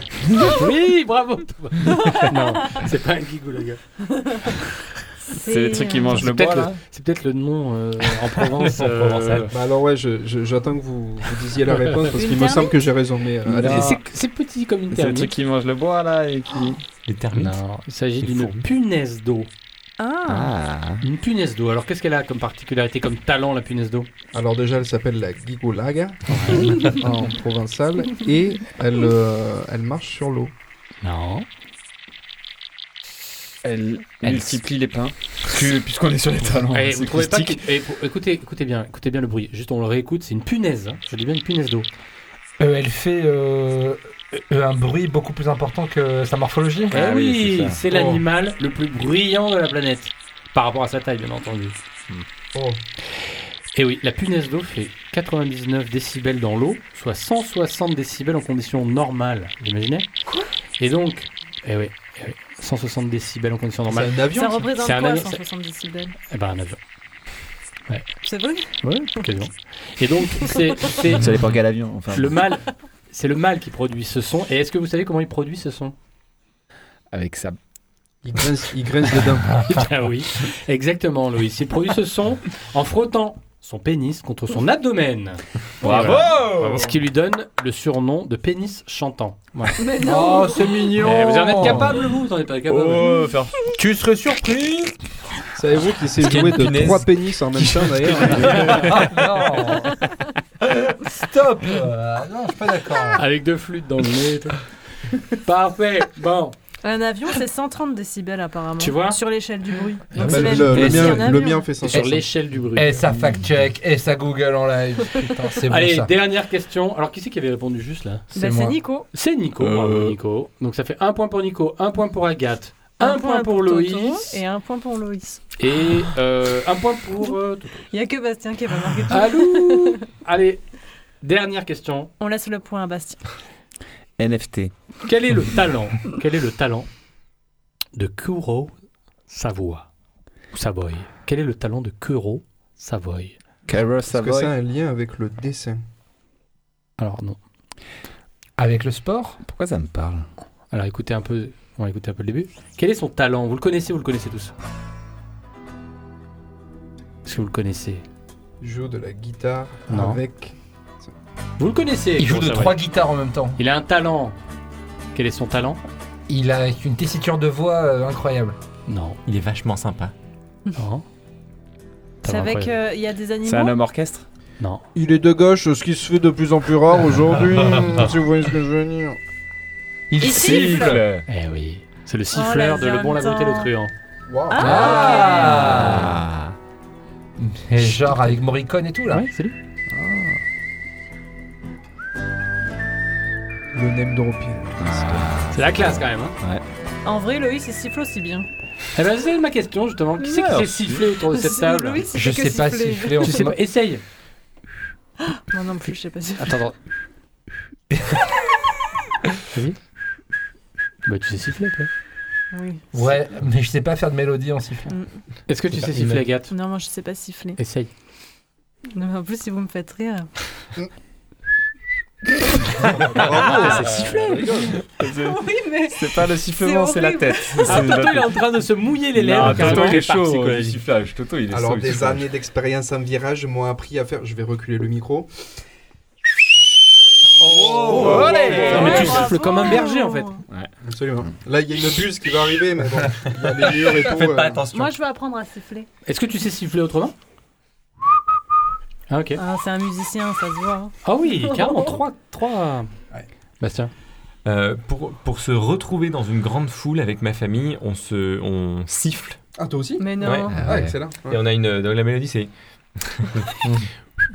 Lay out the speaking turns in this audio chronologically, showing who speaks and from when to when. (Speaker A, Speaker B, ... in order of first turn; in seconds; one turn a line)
Speaker A: 0.4-3.8
Speaker B: 1.9-2.3
Speaker B: 4.1-4.4
Speaker B: 5.3-6.2
Speaker C: 5.4-6.8
Speaker A: 6.1-9.5
Speaker D: 8.7-9.5
Speaker E: 9.5-13.9
Speaker A: 11.7-12.0
Speaker B: 12.0-12.9
Speaker C: 13.4-14.0
Speaker A: 13.6-15.3
Speaker C: 14.9-16.8
Speaker D: 17.1-17.6
Speaker A: 17.3-19.5
Speaker D: 18.2-18.6
Speaker B: 20.0-20.5
Speaker C: 20.3-21.1
Speaker A: 21.0-24.1
Speaker E: 24.3-30.5
Speaker A: 26.3-26.8
Speaker A: 31.0-31.5
Speaker C: 33.6-37.6
Speaker A: 36.5-41.9
Speaker F: 42.6-47.0
Speaker C: 46.9-47.8
Speaker A: 46.9-51.8
Speaker E: 47.9-48.2
Speaker E: 52.5-52.8
Speaker A: 53.7-60.1
Speaker A: 60.8-64.2
Speaker E: 63.9-64.7
Speaker B: 64.3-66.1
Speaker A: 64.7-65.4
Speaker A: 66.2-66.8
Speaker A: 67.9-68.1
Speaker B: 68.2-69.2
Speaker A: 68.8-71.3
Speaker C: 71.1-72.4
Speaker A: 72.1-75.9
Speaker C: 77.1-77.6
Speaker E: 78.2-79.5
Speaker A: 79.7-89.8
Speaker C: 85.8-86.9
Speaker B: 89.8-90.9
Speaker F: 90.0-91.9
Speaker A: 91.0-93.1
Speaker C: 91.6-91.9
Speaker C: 92.7-93.6
Speaker F: 93.7-95.0
Speaker E: 95.5-98.8
Speaker D: 96.2-98.4
Speaker C: 97.7-99.3
Speaker A: 98.2-99.0
Speaker F: 98.7-100.0
Speaker F: 100.7-103.2
Speaker A: 103.1-106.5
Speaker B: 106.8-111.8
Speaker A: 108.8-109.2
Speaker A: 110.1-111.2
Speaker F: 110.2-112.2
Speaker E: 110.3-112.2
Speaker A: 111.8-113.0
Speaker F: 112.7-116.1
Speaker A: 115.7-118.3
Speaker B: 118.3-119.1
Speaker F: 118.3-118.8
Speaker A: 119.1-124.4
Speaker C: 119.6-120.1
Speaker B: 123.0-125.4
Speaker A: 125.6-127.9
Speaker B: 127.9-130.0
Speaker A: 129.1-130.6
Speaker A: 131.2-132.1
Speaker B: 132.2-133.2
Speaker C: 134.2-134.7
Speaker A: 135.0-136.9
Speaker A: 137.9-138.8
Speaker A: 139.3-139.9
Speaker A: 140.5-143.4
Speaker C: 143.7-144.5
Speaker E: 144.1-145.8
Speaker A: 147.0-147.4
Speaker F: 148.6-149.4
Speaker C: 149.4-150.3
Speaker A: 150.7-154.5
Speaker A: 157.2-158.0
Speaker E: 158.6-161.1
Speaker A: 159.9-160.2
Speaker A: 161.6-162.8
Speaker F: 162.2-163.6
Speaker A: 163.6-164.4
Speaker A: 165.1-165.8
Speaker F: 166.3-168.6
Speaker A: 168.9-169.2
Speaker D: 169.2-170.1
Speaker A: 170.8-171.0
Speaker A: 172.2-172.8
Speaker B: 172.2-173.8
Speaker C: 173.4-174.3
Speaker E: 174.9-179.2
Speaker F: 180.1-180.5
Speaker B: 180.2-181.1
Speaker C: 180.2-181.2
Speaker A: 181.3-183.9
Speaker B: 182.3-183.7
Speaker E: 184.3-184.6
Speaker B: 184.5-185.5
Speaker F: 184.6-186.2
Speaker C: 184.6-186.6
Speaker F: 187.4-189.3
Speaker A: 188.0-188.3
Speaker A: 189.1-189.6
Speaker E: 189.9-190.4
Speaker E: 193.7-195.2
Speaker C: 194.8-196.6
Speaker A: 195.5-196.4
Speaker B: 197.0-198.5
Speaker A: 198.9-202.1
Speaker C: 200.2-201.1
Speaker B: 201.2-203.5
Speaker F: 202.1-203.6
Speaker A: 203.2-204.0
Speaker B: 205.2-206.6
Speaker A: 206.4-206.8
Speaker F: 207.9-208.2
Speaker A: 209.5-209.8
Speaker A: 211.0-211.9
Speaker B: 212.5-212.9
Speaker F: 212.9-214.9
Speaker B: 214.9-215.2
Speaker A: 215.5-216.5
Speaker D: 215.9-216.3
Speaker B: 216.5-217.6
Speaker A: 217.6-217.9
Speaker B: 218.9-220.3
Speaker C: 222.8-228.4
Speaker E: 223.0-224.7
Speaker B: 223.8-227.8
Speaker A: 227.6-230.1
Speaker C: 229.1-232.3
Speaker D: 229.4-230.7
Speaker E: 231.5-235.3
Speaker C: 237.4-239.4
Speaker E: 237.4-238.9
Speaker A: 237.9-240.4
Speaker B: 238.5-240.4
Speaker E: 240.8-244.6
Speaker D: 243.4-244.9
Speaker B: 244.7-245.9
Speaker A: 246.0-247.1
Speaker A: 249.1-249.4
Speaker B: 249.4-251.9
Speaker A: 251.0-252.9
Speaker A: 253.6-253.9
Speaker D: 254.4-259.4
Speaker E: 259.6-260.1
Speaker B: 260.0-260.6
Speaker D: 260.2-260.5
Speaker C: 260.5-261.1
Speaker E: 260.7-261.4
Speaker D: 261.2-262.5
Speaker D: 263.0-263.5